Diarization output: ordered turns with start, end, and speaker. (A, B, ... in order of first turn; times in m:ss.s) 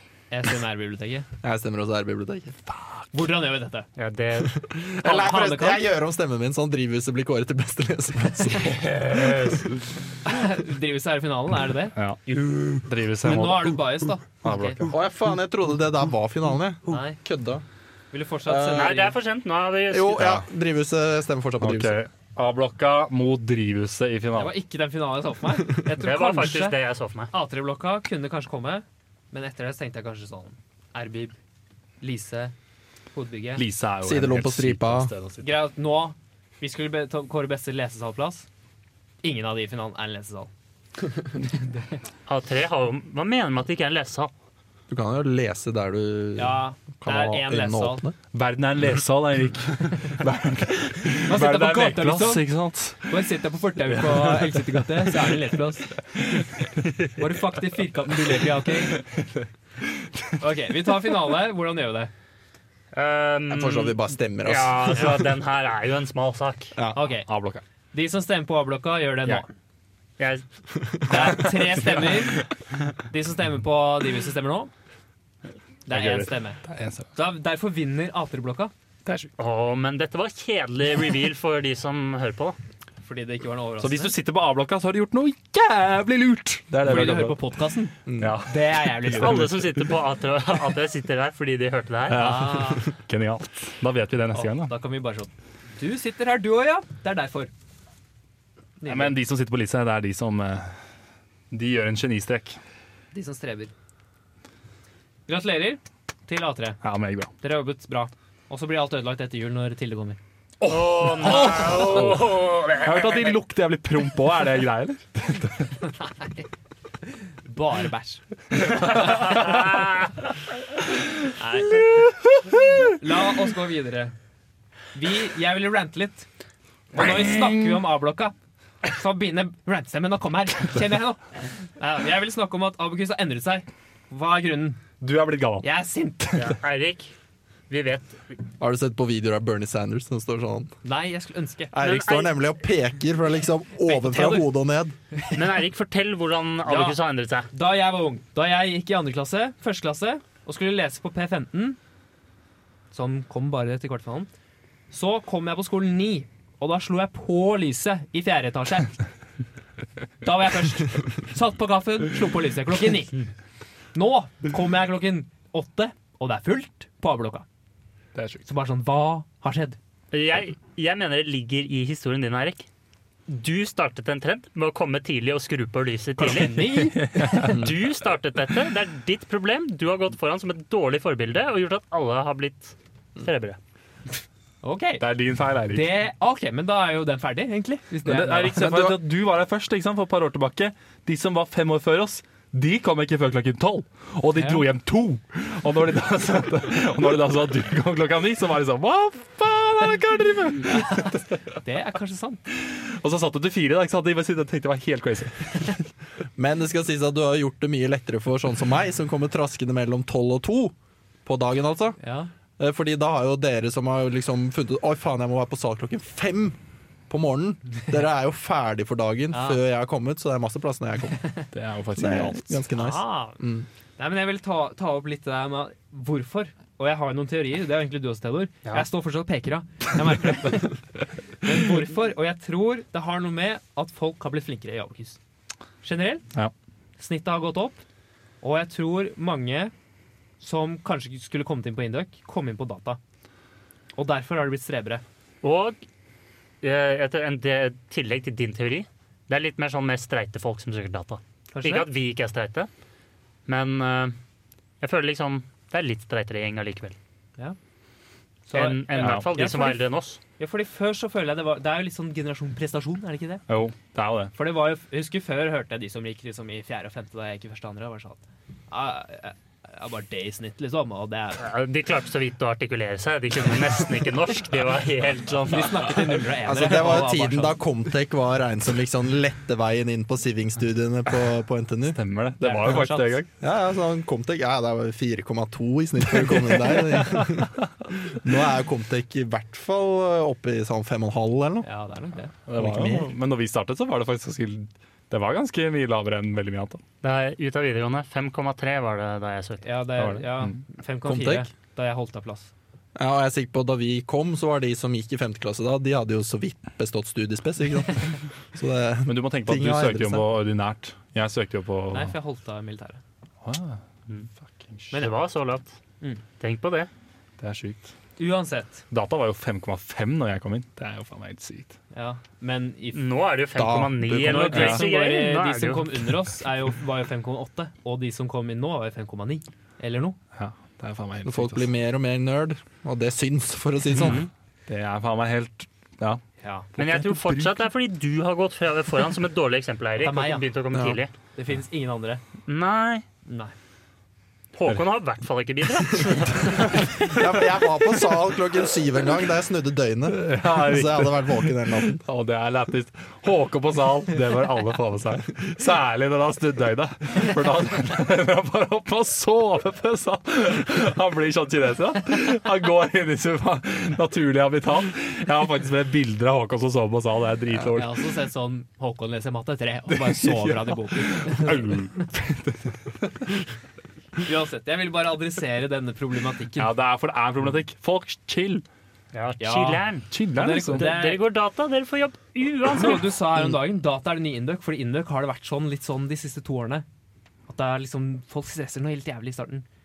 0:00.3-0:01.3 A
0:01.4-0:02.6 B
0:02.7-0:03.0 C
0:03.1-0:03.9 A
0:04.0-0:04.6 D
0:04.6-0:09.5 B
0:05.0-0:05.9 A
0:09.0-0:09.5 D
0:10.2-0:12.0 A
0:12.0-0:12.2 C
0:12.4-0:12.8 D
0:12.9-0:13.8 C
0:13.2-0:14.8 A
0:14.4-0:14.9 C
0:14.8-0:17.6 B
0:16.9-0:17.2 A
0:18.1-0:19.2 A
0:18.4-0:19.0 B
0:18.7-0:20.4 D
0:19.9-0:22.0 B
0:21.6-0:24.6 C
0:24.3-0:26.8 A
0:26.0-0:27.3 D
0:27.3-0:31.4 A
0:32.0-0:32.5 A
0:33.1-0:33.6 A
0:33.6-0:35.5 C
0:34.0-0:35.1 B
0:35.4-0:38.5 A
0:39.2-0:40.5 A
0:42.3-0:44.3 D
0:44.9-0:48.2 B
0:46.4-0:48.0 A
0:48.3-0:53.3 C
0:51.3-0:52.5 A
0:53.1-0:56.0 A
0:53.9-0:54.7 C
0:56.4-0:56.7 C
0:57.1-0:59.0 A
0:59.0-0:59.4 C
1:00.4-1:02.1 A
1:02.9-1:06.7 D
1:03.5-1:05.3 B
1:07.0-1:07.3 A
1:07.1-1:07.6 C
1:07.9-1:09.5 A
1:10.2-1:10.4 D
1:11.0-1:11.3 D
1:11.0-1:12.4 A
1:11.3-1:12.2 C
1:13.1-1:14.7 A
1:15.9-1:16.6 A
1:15.9-1:17.1 C
1:17.1-1:18.7 A
1:19.0-1:19.3 C
1:19.4-1:22.6 D
1:23.0-1:24.1 A
1:23.8-1:27.4 C
1:26.8-1:29.6 A
1:28.1-1:28.4 B
1:28.2-1:29.9 C
1:29.1-1:32.5 D
1:32.1-1:34.7 C
1:32.1-1:32.9 A
1:34.3-1:37.5 A
1:38.8-1:39.2 A
1:38.9-1:40.8 C
1:41.5-1:42.6 C
1:43.1-1:43.7 A
1:45.3-1:46.8 A
1:46.8-1:47.3 C
1:47.4-1:50.2 A
1:50.6-1:55.8 C
1:50.7-1:53.4 D
1:55.9-1:56.4 A
1:57.1-1:59.8 A
1:58.6-1:59.6 C
1:59.2-1:59.9 D
2:01.4-2:01.9 A
2:02.0-2:02.7 C
2:02.8-2:04.1 A
2:04.9-2:06.3 A
2:06.9-2:08.3 A
2:08.8-2:14.8 A
2:15.0-2:15.7 C
2:15.6-2:16.5 A
2:16.4-2:17.1 D
2:17.7-2:18.4 D
2:18.6-2:20.7 B
2:20.8-2:21.7 A
2:21.7-2:25.0 B
2:21.8-2:22.4 D
2:23.9-2:24.5 A
2:25.3-2:27.5 D
2:26.6-2:27.0 A
2:27.5-2:31.8 A
2:32.9-2:34.3 A
2:34.9-2:39.0 A
2:40.2-2:43.3 A
2:43.9-2:47.4 A
2:48.1-2:48.4 C
2:48.4-2:49.8 A
2:50.1-2:52.7 D
2:53.3-3:03.6 D
2:56.2-2:57.6 A
2:57.0-2:57.6 C
3:04.6-3:05.1 A
3:05.0-3:05.9 C
3:05.7-3:08.7 A
3:08.0-3:21.4 C
3:08.6-3:09.0 B
3:14.4-3:14.7 A
3:20.7-3:22.4 A
3:22.6-3:25.8 C
3:26.4-3:30.7 B
3:31.2-3:32.0 B
3:32.0-3:32.3 A
3:32.6-3:36.6 B
3:37.1-3:41.2 B
3:39.3-3:39.6 A
3:41.5-3:42.6 C
3:42.0-3:43.7 B
3:42.7-3:43.4 A
3:44.0-3:50.8 A
3:51.4-3:55.2 A
3:55.8-3:56.3 A
3:57.0-3:57.8 A
3:58.4-3:59.7 A
4:00.4-4:03.0 A
4:04.0-4:05.0 A
4:05.4-4:05.8 D
4:06.6-4:12.7 D
4:11.5-4:11.9 A
4:13.5-4:14.2 D
4:14.8-4:17.0 D
4:18.5-4:19.8 A
4:18.5-4:20.2 D
4:19.0-4:19.3 C
4:20.4-4:23.4 A
4:23.5-4:24.3 C
4:24.4-4:31.4 A
4:31.4-4:35.9 D
4:35.5-4:37.6 A
4:36.4-4:42.0 B
4:41.9-4:43.3 C
4:42.4-4:43.2 A
4:43.4-4:51.7 B
4:46.2-4:47.6 C
4:51.6-4:52.3 A
4:52.5-4:56.8 C
4:52.6-4:53.1 B
4:57.0-4:59.7 D
4:59.6-5:02.5 A
5:00.0-5:00.5 C
5:01.0-5:01.5 B
5:03.0-5:10.2 B
5:09.1-5:12.1 C
5:11.9-5:13.0 A
5:13.4-5:13.8 C
5:14.4-5:14.9 C
5:14.9-5:15.8 D
5:16.4-5:16.9 D
5:17.4-5:17.9 C
5:18.2-5:18.8 A
5:18.9-5:21.8 C
5:21.9-5:23.0 A
5:22.9-5:26.1 D
5:23.6-5:24.8 B
5:24.3-5:30.2 A
5:24.3-5:24.8 C
5:30.4-5:31.7 C
5:31.3-5:34.2 B
5:34.0-5:34.3 D
5:34.7-5:36.2 C
5:36.4-5:36.7 A
5:36.8-5:37.6 C
5:36.8-5:41.1 D
5:40.0-5:40.5 A
5:40.7-5:41.0 B
5:41.4-5:42.2 A
5:42.5-5:43.0 D
5:43.3-5:43.5 A
5:44.5-5:47.1 D
5:47.1-5:52.0 B
5:50.1-6:08.0 C
6:07.7-6:12.1 A
6:09.9-6:13.4 C
6:14.2-6:16.7 A
6:16.6-6:18.6 C
6:19.1-6:20.1 D
6:19.4-6:21.2 A
6:20.1-6:20.9 C
6:20.7-6:23.2 D
6:22.7-6:26.8 A
6:27.5-6:29.7 A